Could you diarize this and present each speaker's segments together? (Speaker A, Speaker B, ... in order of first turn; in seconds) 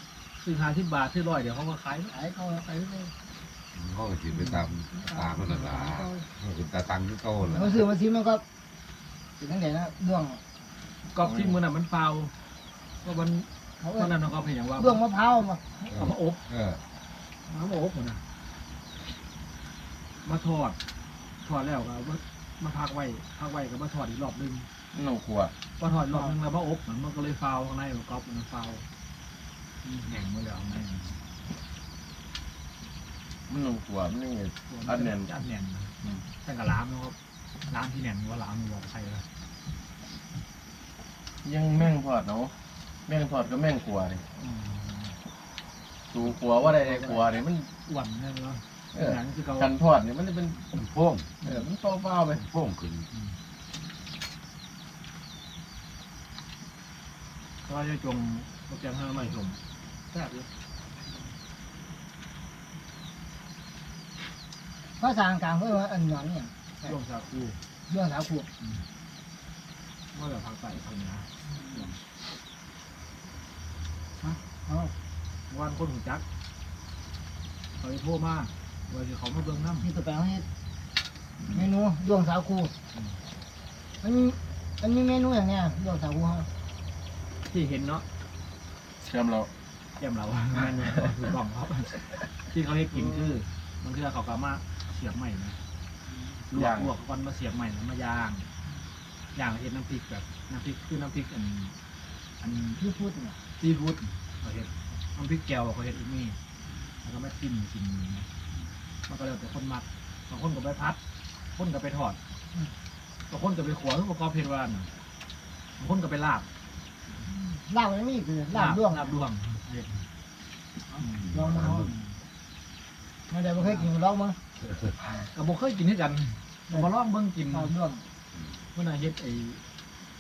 Speaker A: 0.4-2.1, 11.1-12.3, 13.0-15.0, 15.8-16.4, 17.5-18.2, 20.2-20.8, 21.4-24.7, 25.8-28.8, 29.9-31.2, 34.7-37.1, 37.7-39.2, 44.4-45.1, 46.5-49.7, 57.6-59.6, 60.1-60.5, 66.8-67.6, 70.1-71.9, 75.5-76.2, 77.8-79.9, 87.5-88.0, 90.0-95.6, 96.5-98.5, 99.3-101.7, 102.4-102.8, 103.6-106.4, 107.0-108.3, 109.1-111.0, 111.5-112.2, 113.3-114.9, 115.8-116.5, 118.5-120.0, 121.0-121.3, 121.8-122.1, 123.6-123.8, 125.3-127.7, 128.7-129.6
Speaker B: 2.1-3.1, 5.0-6.2, 7.5-8.4, 9.4-10.4, 13.8-14.1, 14.8-15.8, 65.0-66.9, 67.9-68.5, 71.5-71.9, 74.2-74.9, 79.8-80.4, 81.5-82.7, 84.0-86.5, 102.8-103.4, 117.2-119.1, 120.9-121.9, 123.3-124.4, 127.5-128.0
Speaker C: 3.7-7.8, 15.9-16.8, 50.8-51.3, 52.4-53.1, 121.2-121.9
Speaker D: 11.2-11.6, 24.9-25.5, 33.5-35.3, 41.4-42.5, 43.1-44.2, 46.1-47.6, 48.9-50.6, 51.4-52.5, 89.0-89.5, 96.5-96.9